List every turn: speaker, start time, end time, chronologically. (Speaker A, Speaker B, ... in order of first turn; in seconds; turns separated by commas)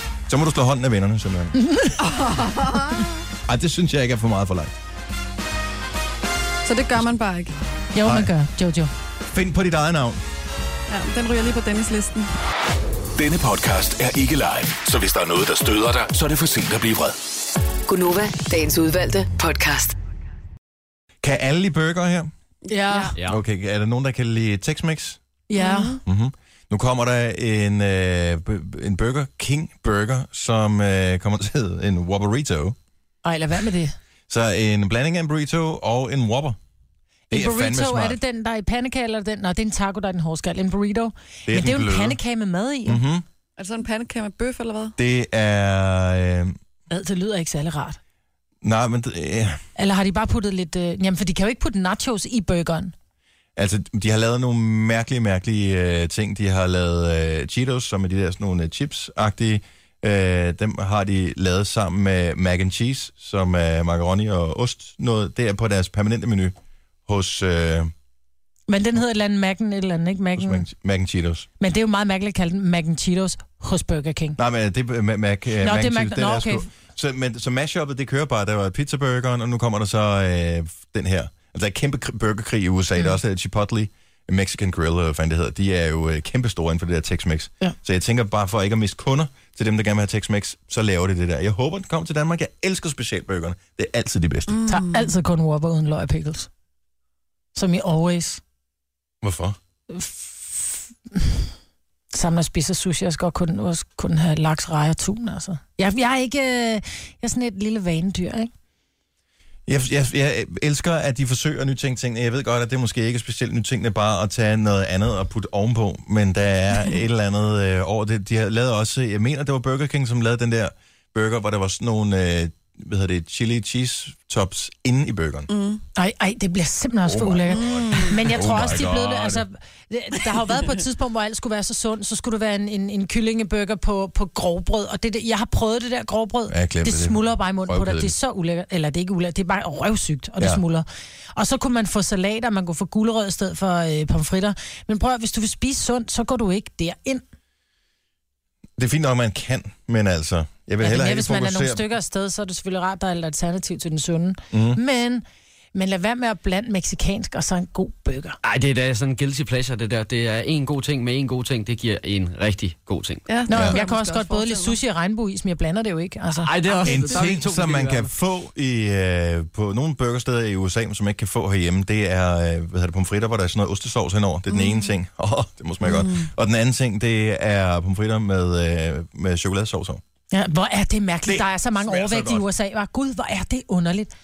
Speaker A: 0.3-1.9, Speaker B: 1.6-1.9, Speaker C: 2.0-3.1, Speaker A: 3.5-4.7, Speaker C: 6.6-7.5, Speaker B: 7.9-8.9, Speaker A: 8.0-8.3, Speaker A: 9.3-10.2, Speaker C: 10.9-12.3, Speaker D: 13.2-17.2, Speaker E: 17.9-19.9, Speaker A: 21.2-22.3, Speaker B: 22.7-23.1, Speaker C: 22.7-23.1, Speaker A: 23.2-25.2, Speaker B: 25.5-26.0, Speaker C: 25.6-25.9, Speaker A: 26.0-32.8, Speaker B: 33.2-34.0, Speaker A: 34.3-36.6, Speaker A: 37.3-38.2, Speaker B: 37.3-43.0, Speaker A: 41.5-42.2, Speaker A: 42.9-43.2, Speaker C: 43.6-44.9, Speaker A: 45.0-46.5, Speaker B: 46.9-48.0, Speaker A: 48.6-49.6, Speaker B: 49.8-52.9, Speaker A: 53.5-66.5, Speaker A: 67.0-67.9, Speaker B: 68.7-70.7, Speaker A: 70.3-71.5, Speaker B: 71.6-74.4, Speaker A: 74.4-94.6, Speaker B: 75.6-76.7, Speaker C: 94.5-95.1, Speaker B: 94.7-96.5, Speaker B: 97.5-98.4, Speaker A: 99.2-99.6, Speaker B: 99.9-101.5, Speaker B: 102.1-108.5, Speaker A: 109.7-125.5, Speaker C: 125.5-125.8, Speaker B: 126.0-147.2, Speaker A: 127.0-129.4, Speaker C: 127.5-128.2, Speaker A: 136.5-138.1, Speaker A: 148.8-151.9, Speaker B: 150.8-158.4, Speaker A: 154.5-154.8, Speaker F: 158.4-163.2, Speaker C: 163.3-164.8, Speaker B: 163.5-166.5, Speaker A: 163.5-163.8, Speaker F: 166.4-168.1, Speaker A: 166.8-180.0, Speaker C: 175.8-176.3, Speaker B: 180.3-184.1, Speaker A: 181.2-182.4